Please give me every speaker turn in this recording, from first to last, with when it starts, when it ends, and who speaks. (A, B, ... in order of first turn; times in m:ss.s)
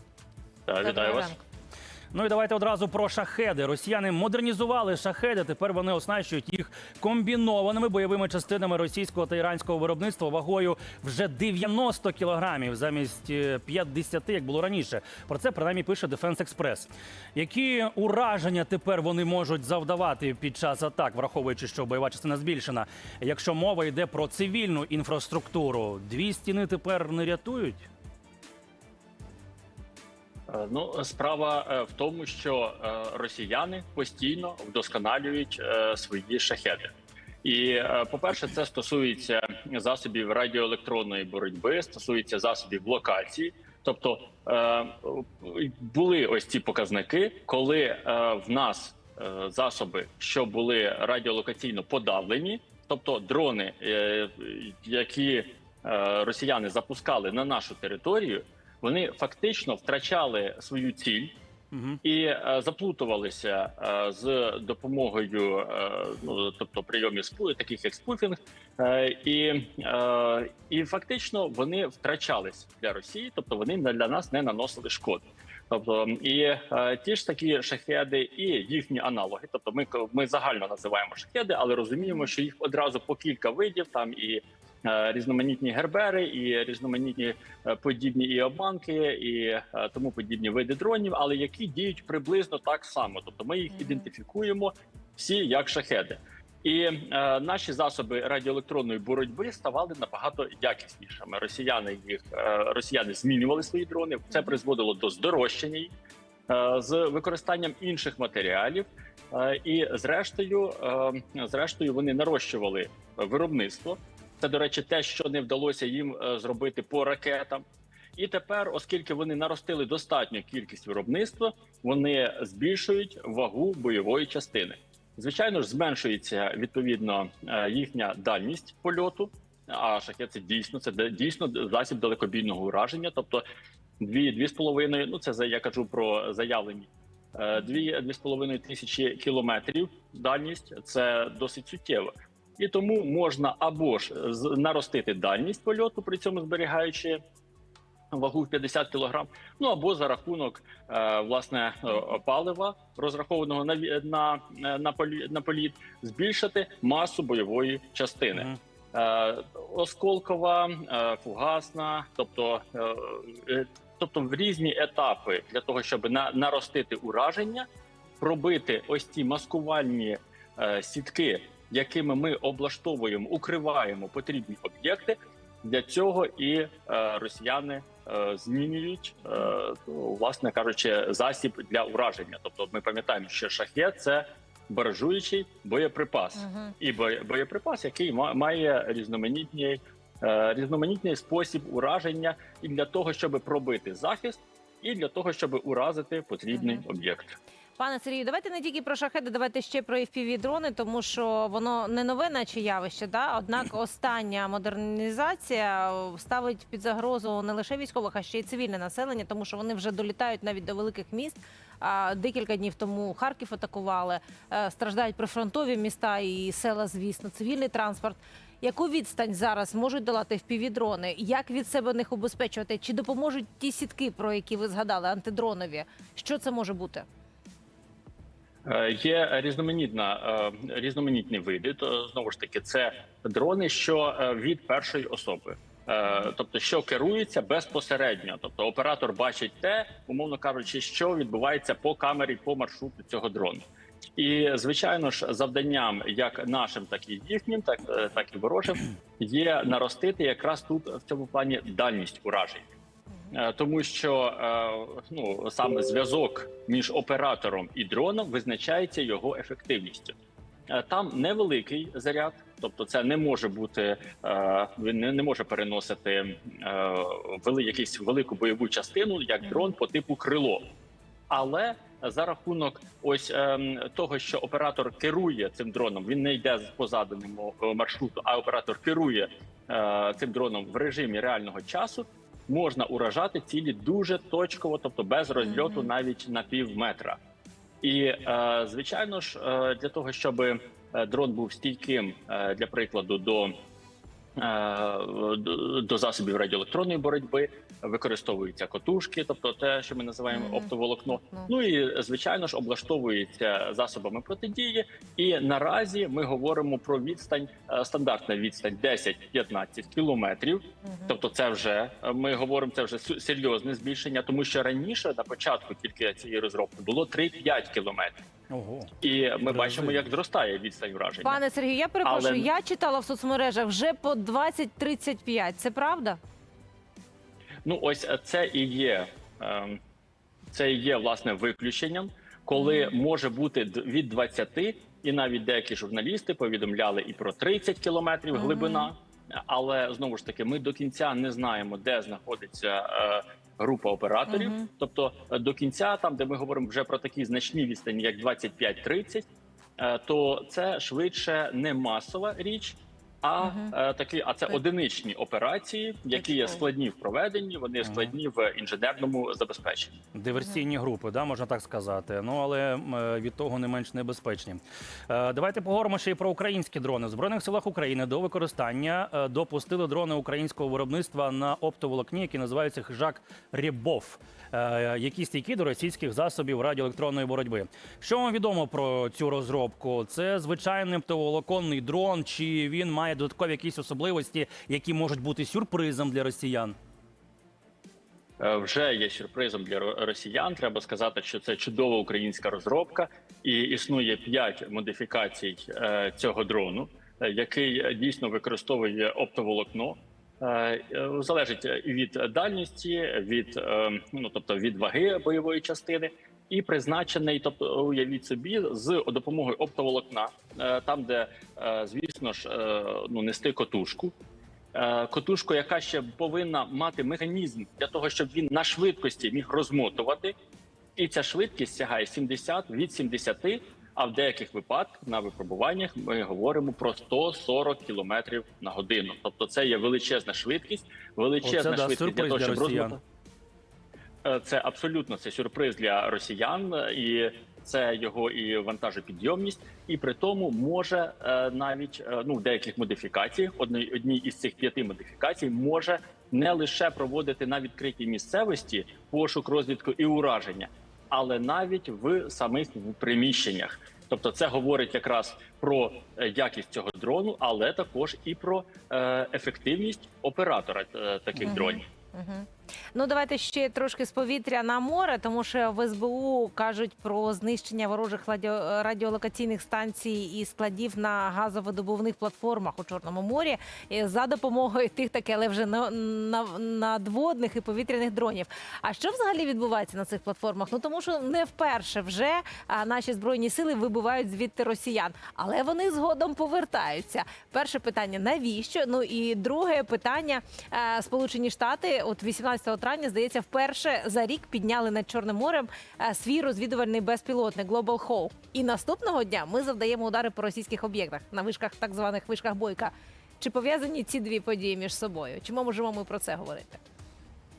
0:00.7-0:01.4 A
0:00.8-0:01.4 B
0:02.1-0:27.9 C
0:30.5-0:36.9 A
0:37.4-1:01.4 A
1:01.7-1:02.0 C
1:02.0-1:45.9 A
1:22.0-1:22.3 B
1:33.8-1:34.1 B
1:46.5-1:57.6 A
1:58.2-2:13.4 A
2:14.0-2:27.2 A
2:28.1-2:47.7 A
2:48.2-3:17.4 A
3:06.4-3:06.7 B
3:16.5-3:16.8 B
3:17.8-3:47.1 B
3:48.6-4:03.6 A
4:04.2-4:12.7 A
4:13.3-4:20.2 A
4:20.7-4:30.7 A
4:29.4-4:29.7 B
4:31.3-4:47.2 A
4:47.8-4:53.5 A
4:54.4-5:18.2 A
5:00.3-5:00.7 B
5:01.2-5:01.5 B
5:10.8-5:11.1 B
5:18.5-5:18.9 C
5:19.0-5:21.4 A
5:19.5-5:20.0 C
5:21.2-5:26.2 B
5:22.0-5:22.5 A
5:27.6-5:29.8 A
5:30.5-5:49.2 A
5:32.6-5:32.9 B
5:38.3-5:38.9 B
5:44.3-5:44.7 B
5:49.8-6:00.0 A
5:53.4-5:53.7 B
5:56.1-5:56.6 B
5:57.9-5:58.1 C
6:00.1-6:26.8 C
6:28.4-6:54.1 A
6:54.7-7:00.3 A
7:01.0-7:13.0 A
7:11.4-7:13.0 C
7:14.2-7:41.9 A
7:41.4-8:26.8 B